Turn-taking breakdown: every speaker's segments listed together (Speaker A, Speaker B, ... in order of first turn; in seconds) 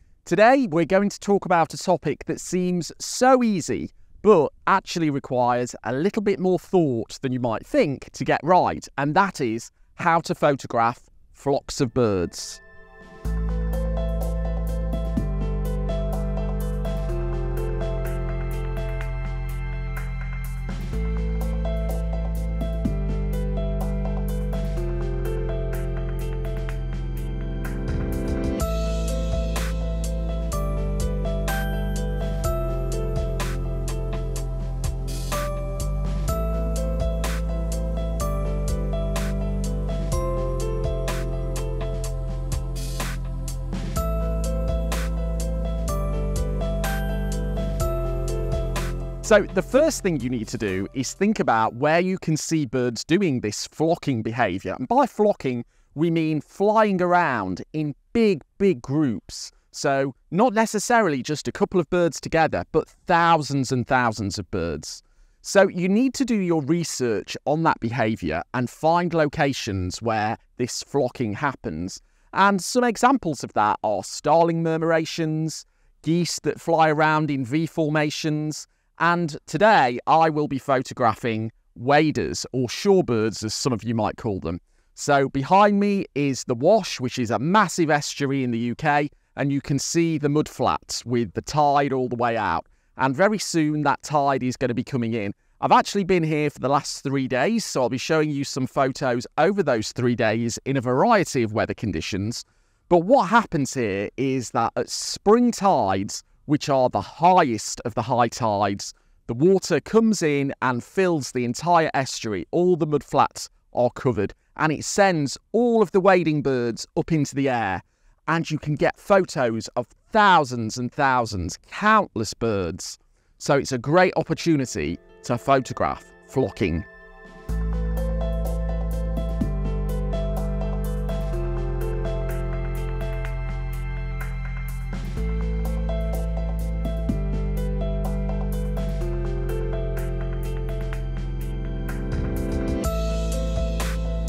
Speaker A: 0.2-12.6, 49.2-126.9